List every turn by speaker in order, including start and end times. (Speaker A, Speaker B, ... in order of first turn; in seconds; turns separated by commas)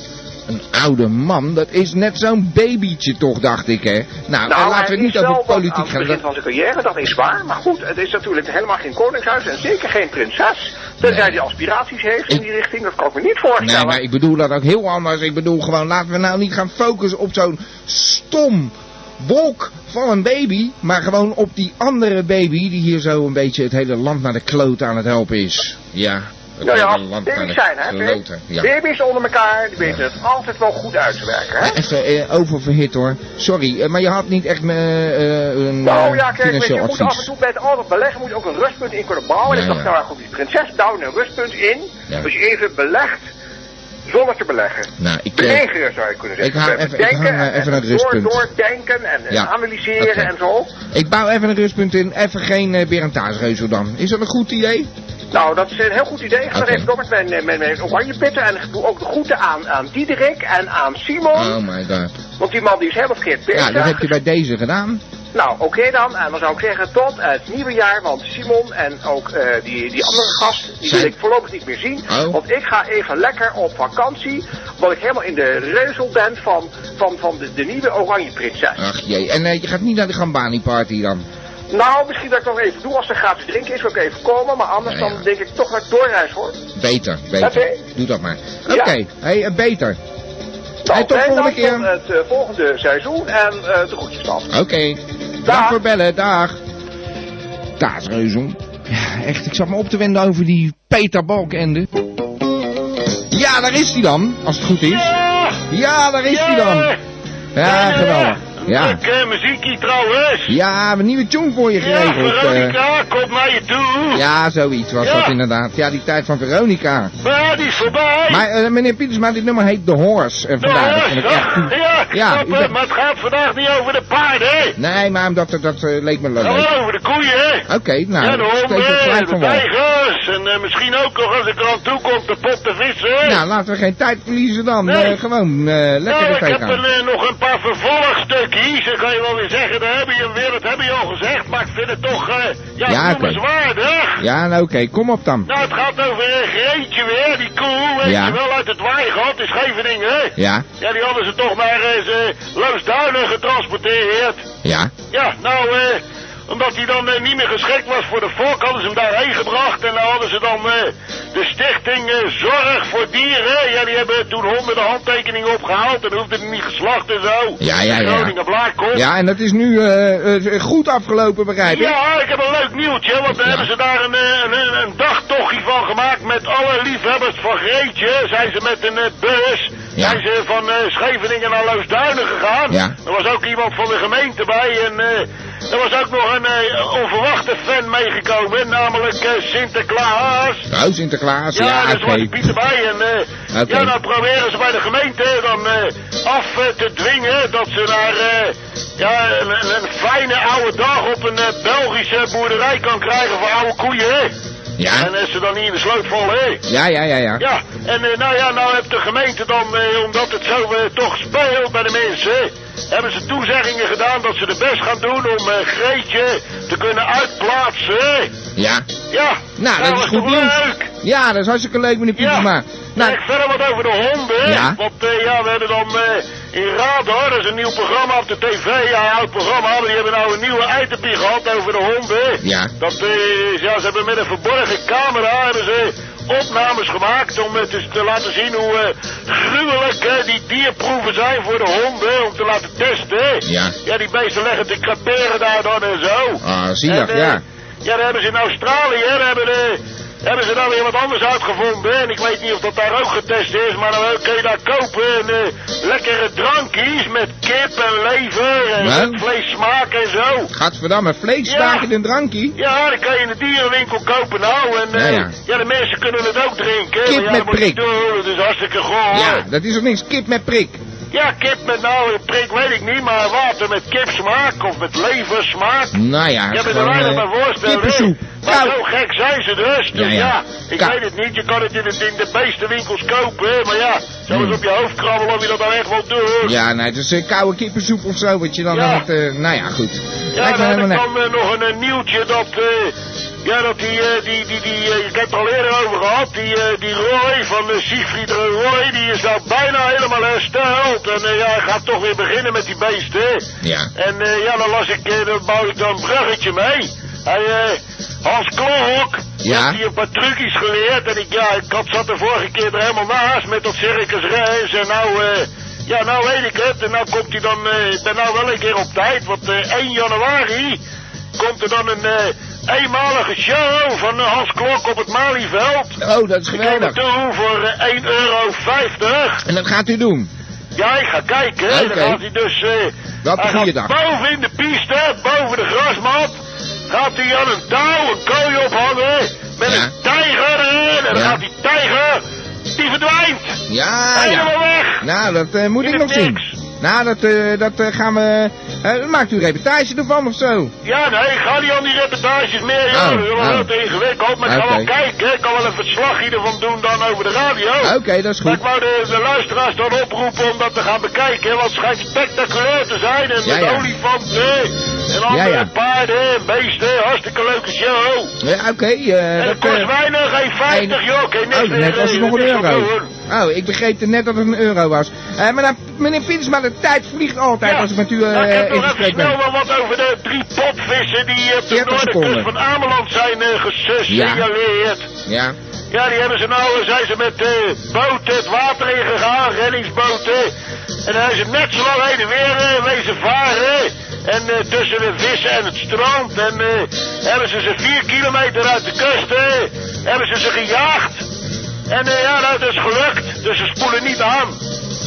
Speaker A: 0.5-6.2, Speaker B: 4.5-14.0, Speaker A: 11.0-11.4, Speaker A: 13.6-28.7, Speaker B: 26.6-31.8, Speaker A: 31.6-37.3, Speaker B: 35.8-43.3, Speaker A: 39.5-39.9, Speaker B: 44.1-50.7, Speaker A: 45.0-45.7, Speaker A: 46.4-48.4, Speaker A: 49.3-50.3, Speaker A: 50.9-54.9, Speaker B: 55.3-61.6, Speaker A: 56.5-56.9, Speaker A: 61.3-62.1, Speaker B: 62.4-64.1, Speaker A: 63.5-65.0, Speaker B: 65.3-78.8, Speaker A: 70.8-71.1, Speaker A: 72.1-72.4, Speaker A: 78.8-81.2, Speaker B: 81.7-86.6, Speaker A: 84.9-85.2, Speaker A: 86.8-90.0, Speaker B: 87.4-87.8, Speaker B: 88.7-88.9, Speaker B: 90.8-94.5, Speaker A: 90.9-91.9, Speaker A: 94.5-96.6, Speaker B: 95.5-95.8, Speaker A: 97.8-101.9, Speaker A: 103.3-105.1, Speaker C: 104.9-105.6, Speaker A: 105.7-106.9, Speaker C: 106.3-107.0, Speaker A: 107.5-109.0, Speaker C: 107.6-110.5, Speaker A: 110.5-112.8, Speaker C: 111.8-114.2, Speaker A: 114.1-117.1, Speaker C: 115.0-115.3, Speaker C: 117.2-118.4, Speaker A: 118.3-122.7, Speaker C: 120.6-124.8, Speaker A: 124.8-126.7, Speaker C: 126.4-127.7, Speaker A: 127.7-129.7, Speaker C: 128.2-133.4, Speaker A: 133.2-136.8, Speaker C: 134.8-135.2, Speaker C: 136.1-144.2, Speaker A: 142.9-143.4, Speaker A: 144.2-145.5, Speaker C: 145.5-154.5, Speaker A: 148.0-148.4, Speaker A: 150.4-150.7, Speaker A: 154.6-154.9, Speaker C: 155.1-169.0, Speaker A: 167.6-168.3, Speaker A: 168.9-172.0, Speaker C: 171.7-190.7, Speaker A: 173.4-173.7, Speaker A: 180.0-180.2, Speaker A: 182.7-182.9, Speaker A: 190.7-192.5, Speaker C: 191.6-204.3, Speaker A: 193.5-193.9, Speaker A: 204.8-205.1, Speaker C: 205.0-206.7, Speaker A: 206.7-207.4, Speaker C: 207.4-218.3, Speaker A: 218.6-218.9, Speaker C: 219.1-220.9, Speaker A: 219.6-223.2, Speaker C: 222.2-260.5, Speaker A: 224.4-224.8, Speaker A: 232.4-232.7, Speaker A: 243.5-243.8, Speaker A: 246.4-247.4, Speaker A: 258.8-259.2, Speaker A: 260.5-262.6, Speaker C: 261.4-261.9, Speaker C: 262.6-269.4, Speaker A: 264.9-265.3, Speaker A: 267.1-267.8, Speaker A: 269.1-270.8, Speaker C: 271.1-275.9, Speaker A: 275.9-278.8, Speaker C: 276.5-286.6, Speaker A: 279.9-281.0, Speaker A: 284.3-284.6, Speaker A: 286.4-291.0, Speaker C: 288.7-289.1, Speaker C: 290.4-303.4, Speaker A: 303.6-303.9, Speaker C: 304.0-320.8, Speaker A: 309.4-309.8, Speaker C: 321.4-326.0, Speaker A: 326.0-327.0, Speaker C: 326.5-329.4, Speaker A: 329.4-330.3, Speaker C: 330.8-336.4, Speaker A: 331.7-332.2, Speaker A: 333.2-333.9, Speaker C: 336.9-342.2, Speaker A: 339.6-339.9, Speaker A: 341.1-341.4, Speaker C: 342.8-343.6, Speaker A: 343.7-350.7, Speaker C: 344.1-345.1, Speaker C: 345.8-346.5, Speaker C: 350.8-368.3, Speaker A: 352.9-353.7, Speaker A: 354.4-354.9, Speaker A: 357.8-358.6, Speaker A: 363.4-363.9, Speaker A: 365.3-365.7, Speaker A: 368.4-369.9, Speaker C: 369.4-373.1, Speaker A: 370.7-371.0, Speaker A: 371.5-379.4, Speaker C: 377.6-385.1, Speaker A: 381.7-382.5, Speaker A: 384.1-384.5, Speaker A: 385.3-385.6, Speaker C: 385.9-390.5, Speaker C: 391.1-401.3, Speaker C: 401.9-404.6